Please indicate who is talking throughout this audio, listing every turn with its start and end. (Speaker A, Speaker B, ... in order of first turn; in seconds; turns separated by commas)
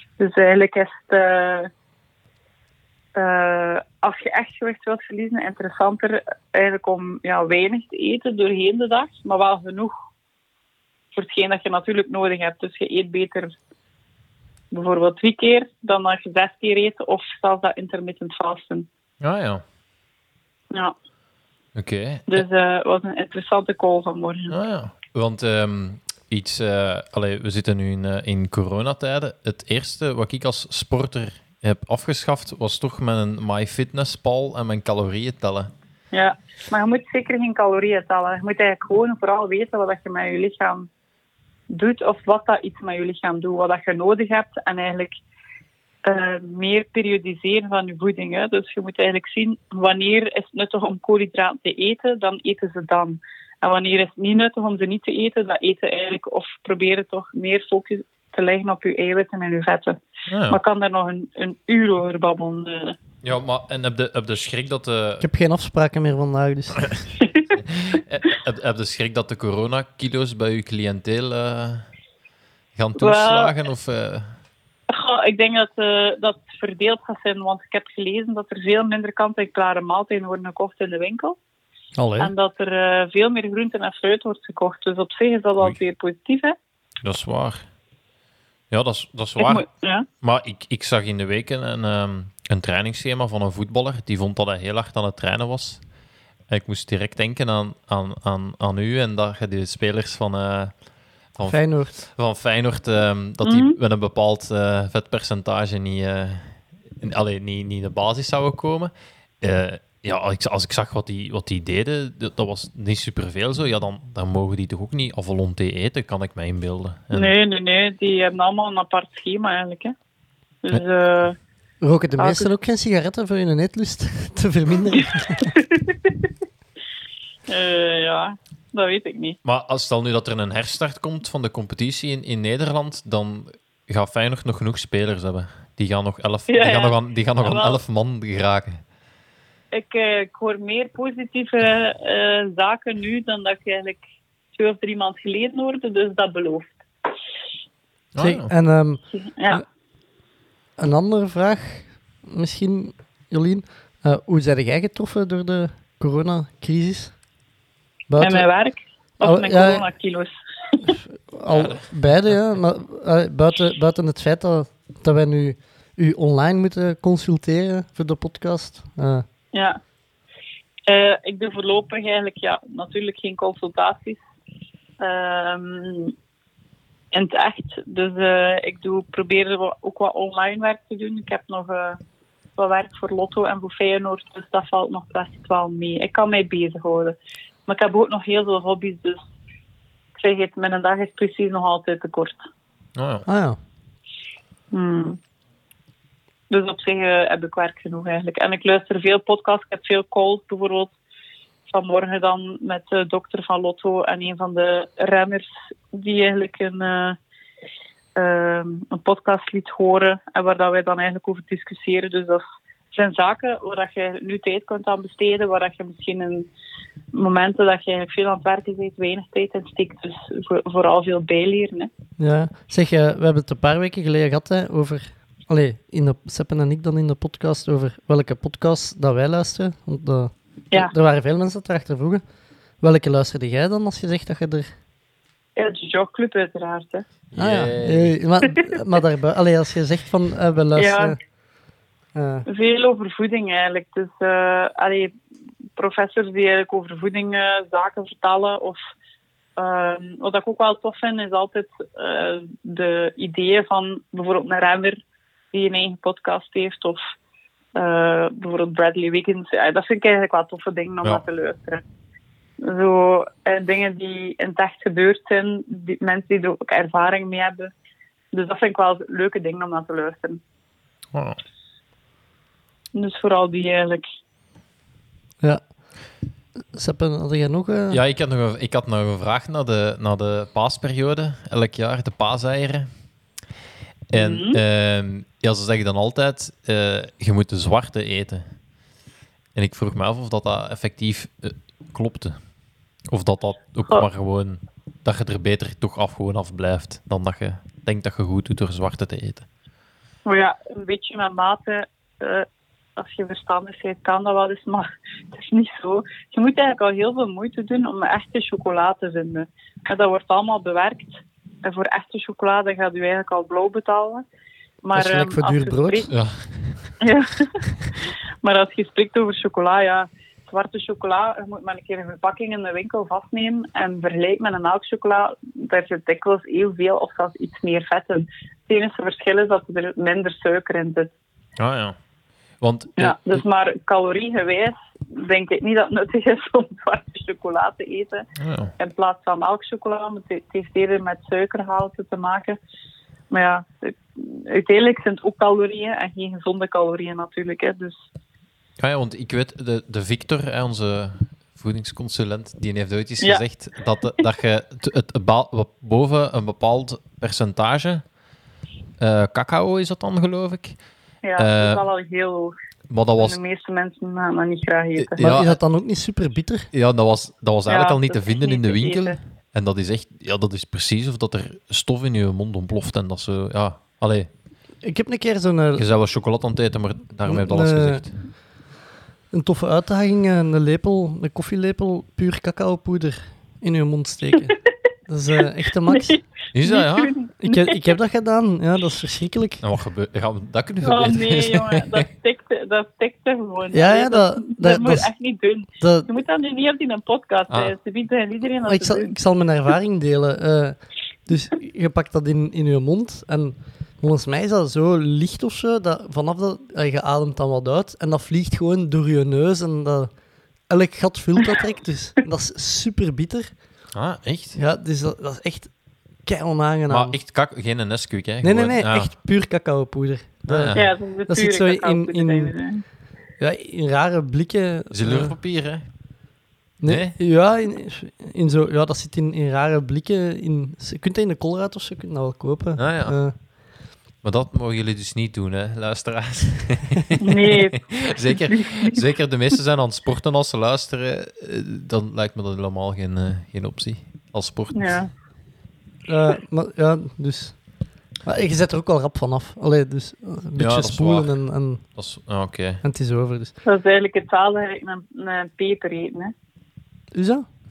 Speaker A: 0.2-1.7, Speaker A: 3.1-9.9, Speaker A: 11.1-13.6, Speaker A: 14.7-18.9, Speaker B: 19.2-19.6, Speaker B: 21.7-22.4, Speaker A: 22.3-24.6, Speaker B: 24.5-35.7, Speaker A: 36.1-40.9, Speaker A: 41.7-45.2, Speaker A: 46.0-63.0, Speaker B: 60.3-60.6, Speaker B: 63.2-65.3, Speaker C: 65.2-66.9, Speaker B: 67.6-71.9, Speaker B: 72.8-74.3, Speaker A: 73.0-73.6, Speaker A: 74.9-81.4, Speaker C: 82.0-82.3, Speaker A: 82.2-86.6, Speaker B: 87.0-87.7, Speaker B: 88.7-89.7, Speaker A: 89.4-90.1, Speaker B: 90.2-95.8, Speaker B: 96.5-100.7, Speaker B: 101.3-117.3, Speaker C: 101.5-101.9, Speaker A: 103.4-103.8, Speaker A: 117.1-120.0, Speaker A: 120.6-121.4, Speaker C: 121.8-125.4, Speaker A: 122.2-122.5, Speaker A: 127.5-129.4, Speaker B: 129.4-138.8, Speaker A: 136.5-137.8, Speaker A: 139.7-144.0, Speaker A: 144.5-146.8, Speaker B: 148.1-148.5, Speaker C: 148.2-149.6, Speaker A: 149.1-149.6, Speaker C: 150.8-157.1, Speaker C: 158.1-158.5, Speaker A: 158.2-160.3, Speaker C: 159.2-159.9, Speaker C: 160.9-169.2, Speaker B: 161.5-161.8, Speaker A: 169.5-169.8, Speaker A: 170.9-174.2, Speaker A: 175.0-176.1, Speaker A: 177.1-182.0, Speaker A: 182.6-187.2, Speaker A: 187.7-189.2, Speaker A: 190.2-192.4, Speaker B: 192.9-193.2, Speaker C: 193.3-193.6, Speaker A: 194.7-195.2, Speaker A: 196.5-200.9, Speaker A: 201.7-207.2, Speaker A: 208.2-216.5, Speaker A: 217.1-221.9, Speaker C: 222.2-232.2, Speaker C: 232.8-234.7, Speaker A: 235.6-237.1, Speaker B: 237.3-238.2, Speaker C: 237.4-241.2, Speaker A: 240.7-241.2, Speaker C: 242.1-242.4, Speaker A: 242.5-245.1, Speaker A: 245.8-248.8, Speaker A: 249.6-255.0, Speaker A: 255.5-257.0, Speaker A: 257.8-261.8, Speaker A: 262.6-267.7, Speaker A: 268.3-270.4, Speaker B: 271.1-271.4, Speaker A: 272.9-274.1, Speaker C: 276.7-278.0, Speaker B: 277.9-282.9, Speaker B: 284.1-288.5, Speaker A: 284.1-284.6, Speaker B: 289.6-292.4, Speaker B: 293.1-299.5, Speaker A: 300.3-314.2, Speaker A: 314.8-316.1, Speaker C: 314.9-316.1, Speaker B: 316.1-317.0, Speaker A: 317.0-317.5, Speaker A: 318.4-331.1, Speaker B: 331.6-331.9, Speaker B: 332.6-333.4, Speaker A: 333.0-338.3, Speaker B: 338.4-338.7, Speaker A: 338.8-342.6, Speaker A: 343.3-348.0, Speaker B: 348.8-358.1, Speaker A: 353.2-353.4, Speaker B: 359.0-360.8, Speaker A: 361.2-362.6, Speaker B: 361.4-361.9, Speaker B: 362.9-363.4, Speaker A: 363.2-365.2, Speaker B: 365.0-365.6, Speaker C: 365.2-366.7, Speaker B: 366.7-374.3, Speaker A: 367.7-369.2, Speaker C: 374.8-375.9, Speaker B: 375.8-378.1, Speaker C: 377.3-378.1, Speaker C: 379.3-384.5, Speaker C: 385.1-386.2, Speaker A: 385.9-387.9, Speaker B: 386.5-387.1, Speaker C: 387.4-389.6, Speaker B: 389.6-392.1, Speaker A: 390.8-399.1, Speaker C: 393.7-395.1, Speaker C: 395.8-396.1, Speaker B: 397.5-397.7, Speaker C: 398.6-410.1, Speaker C: 410.7-413.6, Speaker B: 413.9-414.6, Speaker C: 414.6-415.7, Speaker C: 416.2-417.2, Speaker B: 416.9-419.1, Speaker C: 418.4-422.6, Speaker B: 420.5-420.9, Speaker A: 420.7-422.8, Speaker C: 423.4-425.4, Speaker B: 424.9-425.9, Speaker C: 426.8-433.4, Speaker B: 426.9-427.2, Speaker B: 432.8-433.2, Speaker B: 434.2-445.0, Speaker A: 437.2-439.0, Speaker A: 444.7-445.1, Speaker C: 446.1-447.6, Speaker C: 448.2-451.9, Speaker B: 450.6-451.4, Speaker B: 451.9-452.8, Speaker C: 452.8-453.6, Speaker A: 453.6-456.3, Speaker C: 457.1-457.4